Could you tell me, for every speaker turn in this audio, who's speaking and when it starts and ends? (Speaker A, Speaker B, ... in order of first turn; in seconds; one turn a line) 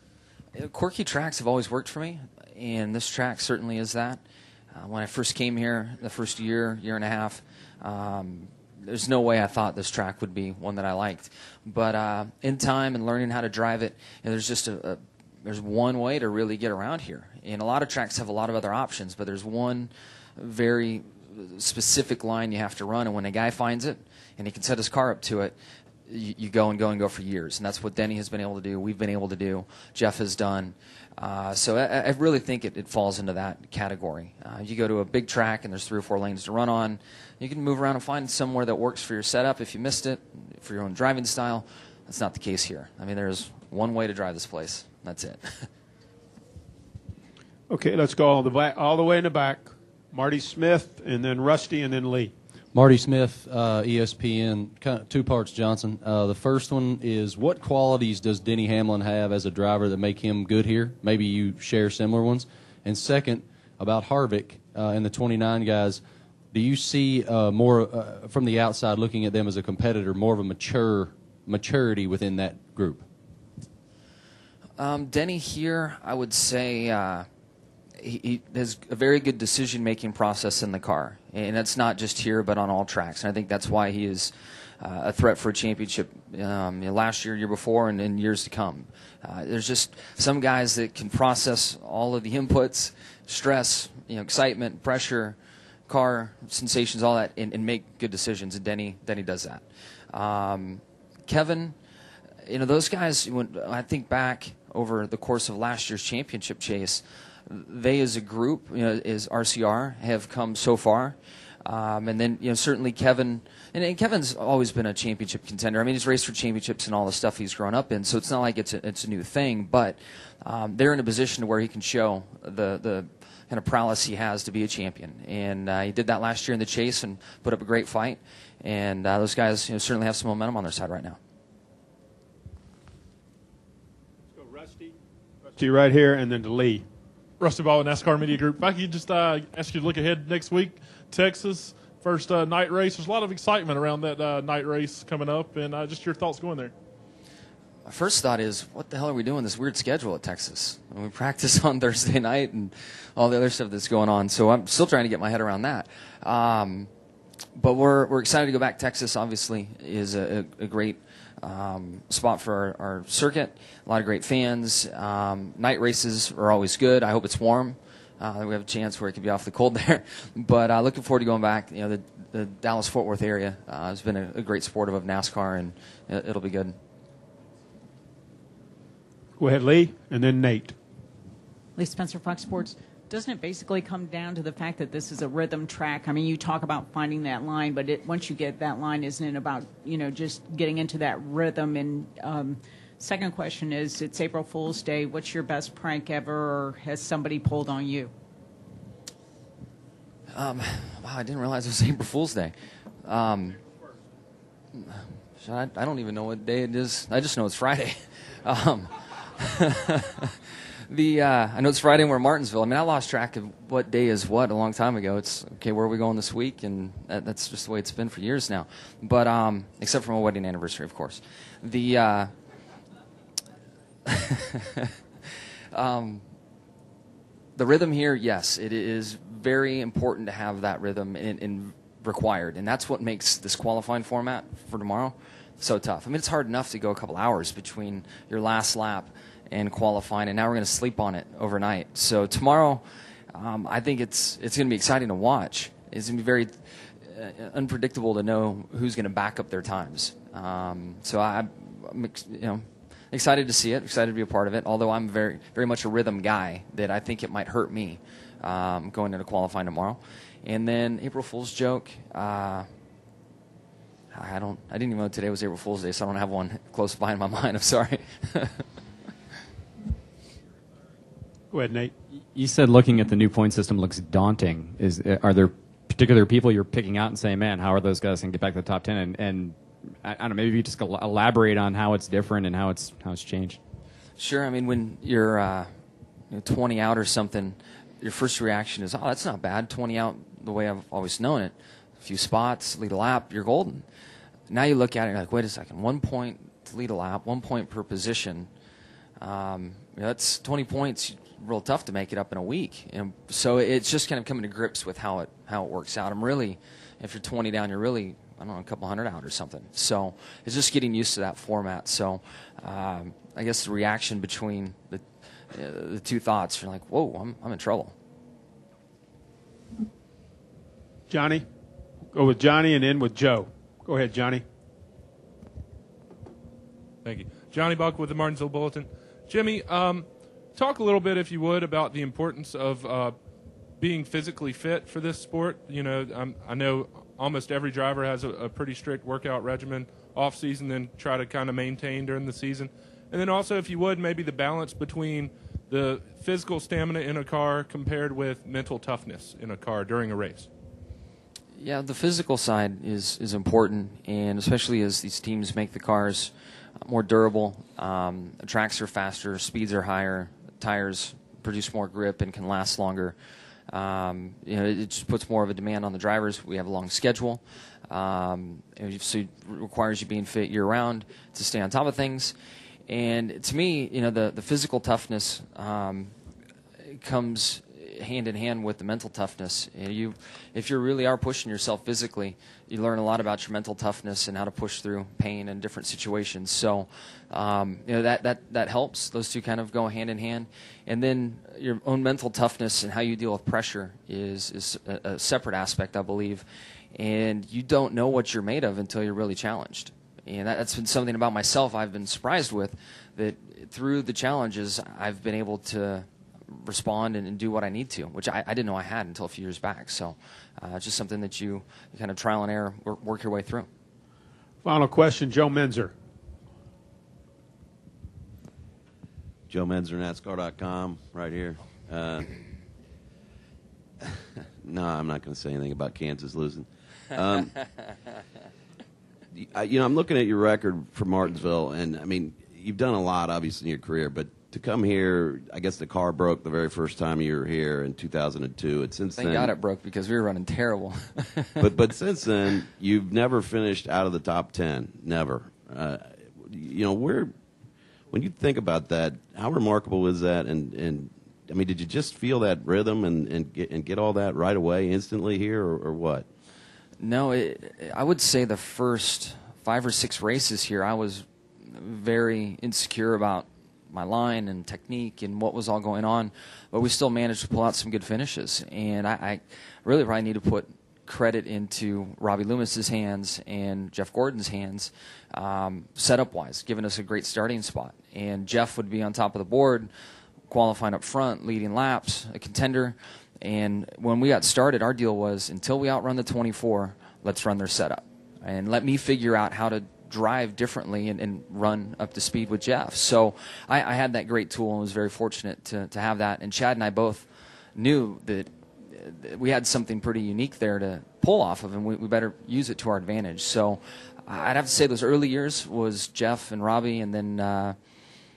Speaker A: 0.5-4.2
Speaker A: 4.7-25.5
Speaker A: 26.1-45.6
Speaker B: 47.7-52.3
Speaker C: 52.7-66.0
Speaker C: 66.5-73.0
Speaker A: 74.8-77.2
Speaker A: 78.0-95.4
Speaker A: 95.9-101.8
Speaker A: 102.4-131.2
Speaker B: 134.3-136.9
Speaker D: 137.4-146.7
Speaker A: 147.8-156.9
Speaker A: 157.5-176.7
Speaker B: 179.4-180.8
Speaker E: 181.8-198.1
Speaker A: 200.3-203.6
Speaker A: 204.8-222.3
Speaker A: 224.1-224.9
Speaker A: 225.7-226.2
Speaker A: 227.6-262.7
Speaker A: 264.1-268.6
Speaker B: 271.5-271.9
Speaker F: 272.3-283.6
Speaker A: 284.2-285.7
Speaker A: 286.3-293.9
Speaker A: 294.5-298.5
Speaker A: 299.2-317.9
Speaker B: 321.1-321.5
Speaker B: 322.1-324.4
Speaker G: 327.0-333.1
Speaker G: 333.8-350.5
Speaker A: 351.6-356.3
Speaker A: 356.8-363.1
Speaker A: 363.7-372.3
Speaker A: 372.9-376.1
Speaker A: 376.8-413.7
Speaker B: 414.6-415.9
Speaker H: 419.5-422.3
Speaker H: 424.6-427.6
Speaker H: 429.3-439.5
Speaker A: 439.1-441.7
Speaker H: 441.6-447.3
Speaker H: 448.1-456.2
Speaker A: 457.0-479.9
Speaker A: 480.5-507.8